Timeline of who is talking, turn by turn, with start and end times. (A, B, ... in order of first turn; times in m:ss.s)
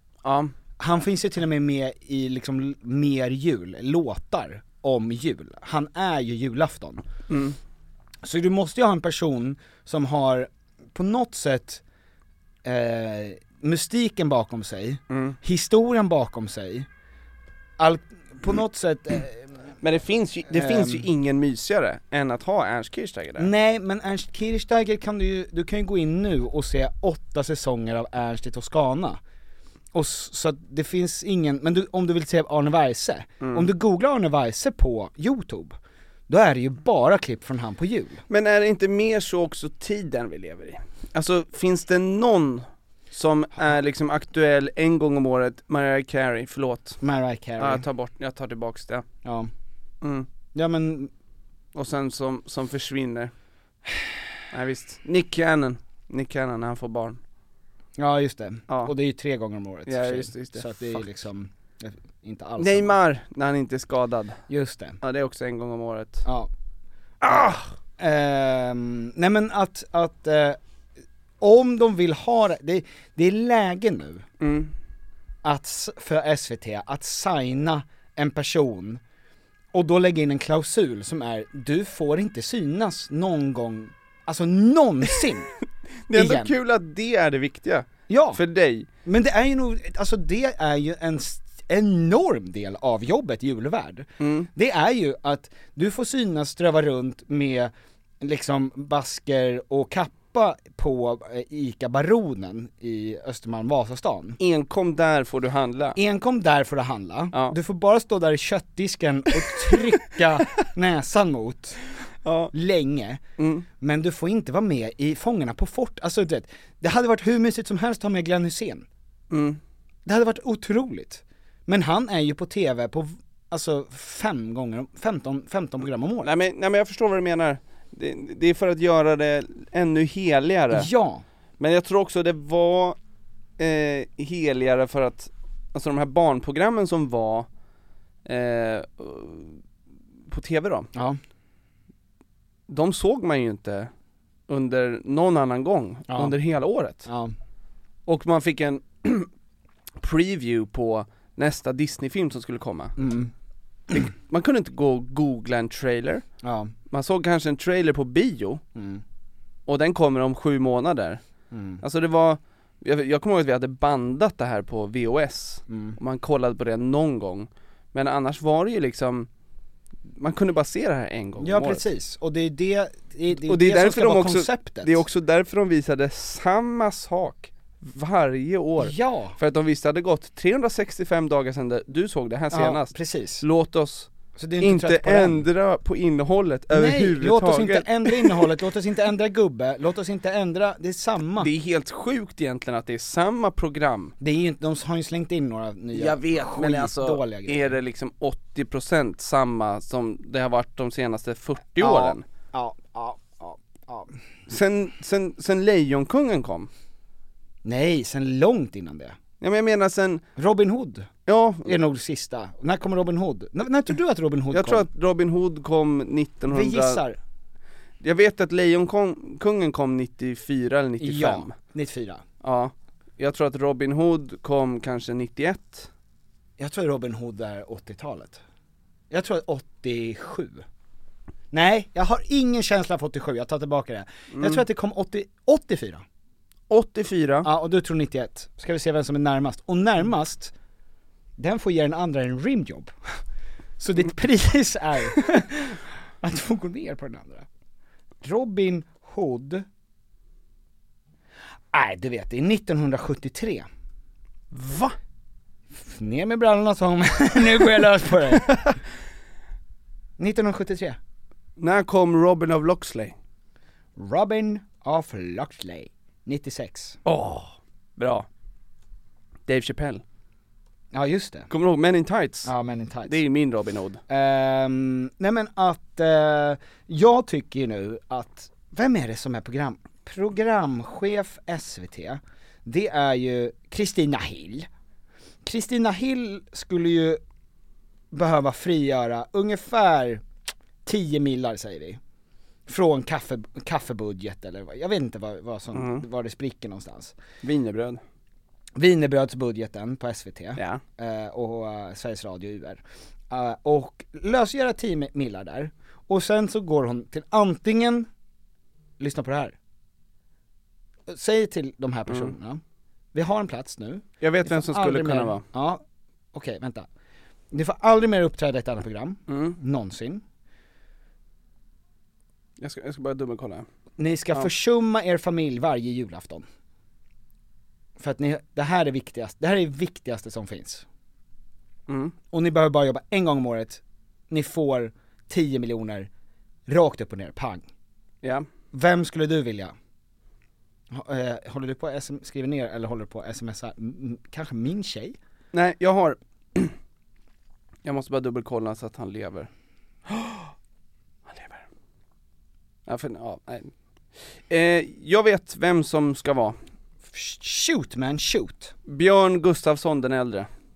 0:00.2-0:00.5 A
0:00.8-0:07.0 B
0:07.3-0:07.6 A
0:08.2-0:11.8 B
0:12.6-0:16.9 B
0:15.1-0:15.4 A
0:17.8-0:19.7 B
0:19.8-0:23.5 A
0:20.5-0:21.1 B
0:23.4-0:29.2 B
0:29.9-0:35.7 B
0:33.4-0:33.7 A
0:36.3-0:38.2 B
0:38.3-0:47.0 A
0:47.0-0:47.8 B
0:47.6-0:49.0 A
0:49.2-0:49.5 B
0:50.0-0:50.3 A
0:50.5-0:51.1 B
0:51.7-0:53.3 A
0:54.5-0:57.2 A
0:58.0-1:03.0 B
0:59.9-1:01.0 A
1:02.6-1:04.4 A
1:04.5-1:05.0 B
1:05.0-1:06.2 A
1:06.2-1:06.5 B
1:07.2-1:07.6 A
1:07.2-1:10.6 B
1:11.4-1:14.2 B
1:14.4-1:14.7 A
1:15.4-1:19.0 B
1:19.7-1:25.5 B
1:26.1-1:28.9 A
1:26.1-1:26.5 B
1:28.1-1:28.4 B
1:29.0-1:44.4 B
1:34.2-1:34.5 A
1:44.4-1:46.0 A
1:45.9-1:51.8 B
1:52.2-1:52.5 A
1:52.5-1:53.2 B
1:53.4-1:53.6 A
1:53.8-1:58.9 B
1:59.3-1:59.6 A
2:00.0-2:06.3 B
2:06.2-2:10.9 A
2:10.7-2:11.2 B
2:11.6-2:13.0 A
2:13.6-2:17.5 A
2:18.2-2:19.6 A
2:20.3-2:20.9 A
2:22.7-2:23.9 A
2:24.5-2:27.1 A
2:26.1-2:26.4 B
2:27.0-2:27.3 B
2:28.1-2:29.3 A
2:30.0-2:32.9 A
2:33.0-2:33.3 B
2:33.9-2:36.2 A
2:36.4-2:36.7 B
2:36.9-2:38.6 A
2:38.8-2:39.0 B
2:39.7-2:41.2 A
2:41.5-2:41.8 B
2:41.8-2:49.3 A
2:45.7-2:46.0 B
2:50.1-2:51.8 A
2:51.4-2:55.0 B
2:53.3-3:08.5 A
2:58.8-2:59.4 B
3:02.5-3:03.4 B
3:04.4-3:05.4 B
3:06.7-3:11.5 B
3:11.4-3:14.1 A
3:14.2-3:17.8 B
3:15.9-3:22.2 A
3:21.8-3:24.2 B
3:24.5-3:26.7 A
3:27.6-3:29.2 B
3:29.4-3:30.2 A
3:30.4-3:31.1 B
3:31.3-3:31.7 A
3:31.6-3:34.9 B
3:34.5-3:37.0 A
3:36.5-3:37.2 B
3:38.0-3:41.5 A
3:41.0-3:42.2 B
3:42.4-3:45.9 A
3:46.6-3:48.4 B
3:49.1-3:50.6 B
3:51.5-3:56.0 B
3:54.3-3:54.6 A
3:56.7-3:57.5 A
3:57.4-4:00.5 B
4:01.4-4:02.9 B
4:03.8-4:07.5 B
4:08.2-4:09.6 B
4:11.7-4:13.7 B
4:14.5-4:15.0 A
4:15.7-4:18.6 B
4:20.2-4:21.0 B
4:21.6-4:23.1 A
4:24.0-4:27.0 B
4:27.0-4:28.3 A
4:29.5-4:30.0 A
4:30.9-4:31.5 B
4:31.5-4:32.5 A
4:32.4-4:33.2 B
4:33.1-4:34.0 A
4:34.1-4:44.7 B
4:45.4-4:47.2 B
4:48.1-4:50.2 B
4:50.8-4:52.0 B
4:52.7-4:57.2 B
4:55.7-4:56.0 A
4:57.4-4:58.0 A
4:58.8-5:08.1 B
5:09.0-5:09.6 B
5:11.1-5:12.6 B
5:13.1-5:15.8 B
5:14.2-5:15.4 A
5:16.3-5:16.9 B
5:17.5-5:20.2 B
5:19.3-5:19.6 A
5:22.6-5:23.6 A
5:24.0-5:26.4 B
5:28.0-5:30.8 B
5:31.9-5:32.1 A
5:32.3-5:36.1 B
5:36.7-5:37.7 B
5:38.7-5:39.7 B
5:40.9-5:45.2 B
5:45.5-5:46.7 A
5:47.8-5:49.5 A
5:50.1-5:50.5 A
5:51.3-5:51.6 A
5:52.9-5:53.7 A
5:54.5-5:56.6 A
5:57.1-5:58.7 B
5:58.9-6:00.5 A